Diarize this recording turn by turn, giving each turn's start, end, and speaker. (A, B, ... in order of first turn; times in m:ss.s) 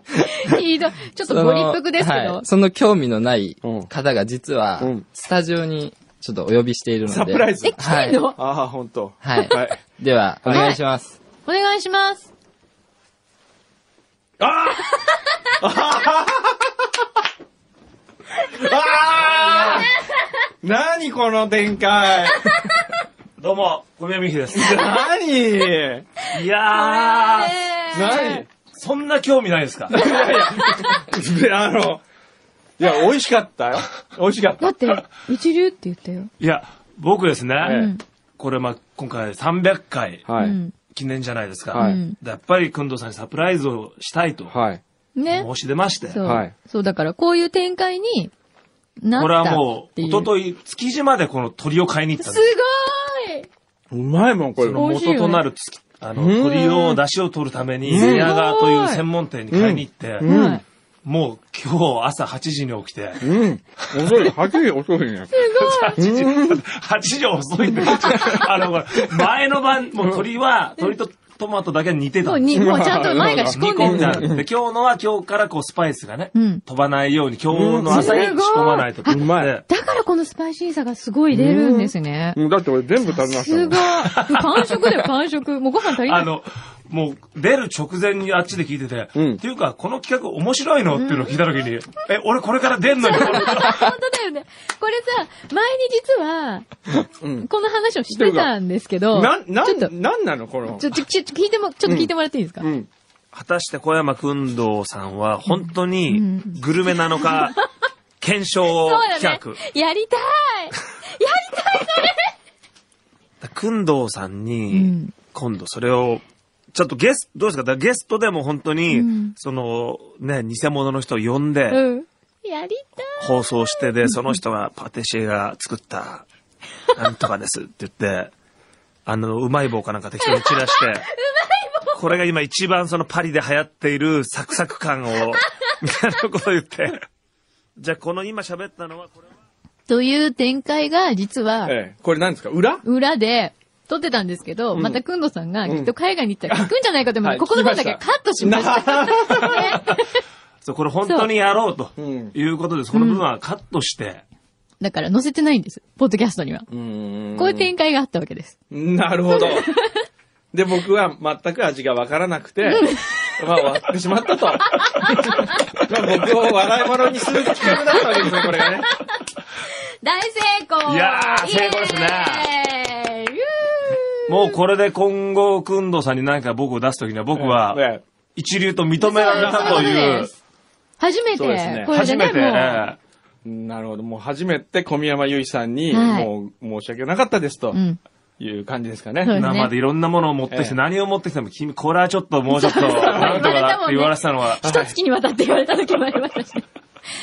0:00.1-0:02.4 A
0:01.3-0:08.3 B
0:03.6-0:03.9 C
0:04.8-0:05.0 C
0:07.1-0:07.8 C
0:07.6-0:08.4 A
0:08.4-0:09.8 C
0:09.2-0:11.2 B
0:10.4-0:10.7 C
0:10.5-0:10.8 A
0:11.5-0:12.3 A
0:14.4-0:15.0 C
0:15.6-0:16.9 C
0:18.5-0:19.9 C
0:19.3-0:19.8 D
0:19.5-0:20.1 A
0:20.6-0:22.6 C
0:23.4-0:24.9 D
0:24.5-0:26.1 C
0:26.3-0:27.8 D
0:26.7-0:28.4 A
0:27.9-0:28.5 C
0:28.5-0:30.0 D
0:29.9-0:32.0 C
0:32.8-0:34.8 C
0:34.6-0:36.3 A
0:36.4-0:44.6 D
0:37.6-0:37.9 C
0:37.6-0:38.0 A
0:40.3-0:40.6 C
0:40.4-0:40.7 A
0:41.7-0:42.0 C
0:41.7-0:42.2 A
0:44.5-0:44.8 C
0:45.2-0:45.5 A
0:45.3-0:46.3 D
0:46.1-0:48.3 A
0:46.2-0:46.5 C
0:49.0-0:50.3 A
0:49.2-0:52.5 D
0:52.2-0:53.5 A
0:53.9-0:54.8 C
0:54.6-1:00.3 D
0:54.8-0:55.4 A
0:56.2-0:56.8 C
0:57.9-0:58.3 C
0:58.0-0:59.0 A
0:59.5-1:00.6 C
1:00.2-1:00.6 A
1:01.0-1:04.4 D
1:03.2-1:05.3 C
1:05.3-1:06.1 A
1:05.5-1:19.6 D
1:06.0-1:06.6 C
1:07.8-1:08.4 C
1:12.2-1:14.3 A
1:12.5-1:14.4 C
1:16.3-1:16.6 A
1:17.5-1:18.2 C
1:17.9-1:22.4 A
1:19.1-1:19.5 C
1:21.3-1:24.1 C
1:23.0-1:26.3 A
1:24.1-1:24.9 D
1:25.9-1:34.0 D
1:29.2-1:29.4 C
1:30.9-1:31.4 A
1:32.8-1:36.7 A
1:36.9-1:37.5 C
1:37.4-1:39.9 A
1:38.1-1:38.5 C
1:39.1-1:41.0 C
1:40.8-1:42.7 A
1:41.8-1:42.9 C
1:43.3-1:47.6 D
1:45.5-1:47.6 A
1:48.2-1:49.6 D
1:48.7-1:52.3 A
1:53.4-2:01.8 D
1:54.7-1:55.1 A
1:58.9-1:59.4 A
2:01.7-2:04.2 A
2:03.2-2:06.2 D
2:06.9-2:08.3 D
2:09.1-2:11.1 D
2:10.2-2:12.0 A
2:11.9-2:17.0 D
2:17.8-2:19.2 D
2:19.9-2:21.8 A
2:21.6-2:22.8 C
2:22.8-2:30.2 A
2:24.7-2:25.0 C
2:25.6-2:25.9 C
2:27.2-2:29.8 C
2:30.6-2:34.2 D
2:31.0-2:31.3 A
2:32.0-2:32.3 C
2:32.9-2:33.2 A
2:34.8-2:36.7 A
2:36.7-2:37.7 C
2:37.4-2:38.6 A
2:38.7-2:39.7 C
2:39.3-2:40.0 A
2:40.5-2:48.9 C
2:42.6-2:43.6 A
2:44.6-2:45.8 A
2:47.2-2:54.6 A
2:50.8-2:52.5 D
2:54.3-3:00.3 D
2:57.4-2:58.0 C
2:59.0-3:00.3 A
2:59.3-3:00.0 C
3:01.0-3:02.9 A
3:01.4-3:01.9 C
3:01.9-3:03.0 D
3:03.4-3:07.8 C
3:05.9-3:06.3 A
3:07.7-3:08.0 A
3:08.4-3:09.4 C
3:09.2-3:09.7 A
3:09.3-3:14.6 D
3:10.5-3:10.8 C
3:12.5-3:16.7 A
3:13.2-3:13.5 C
3:14.6-3:15.0 C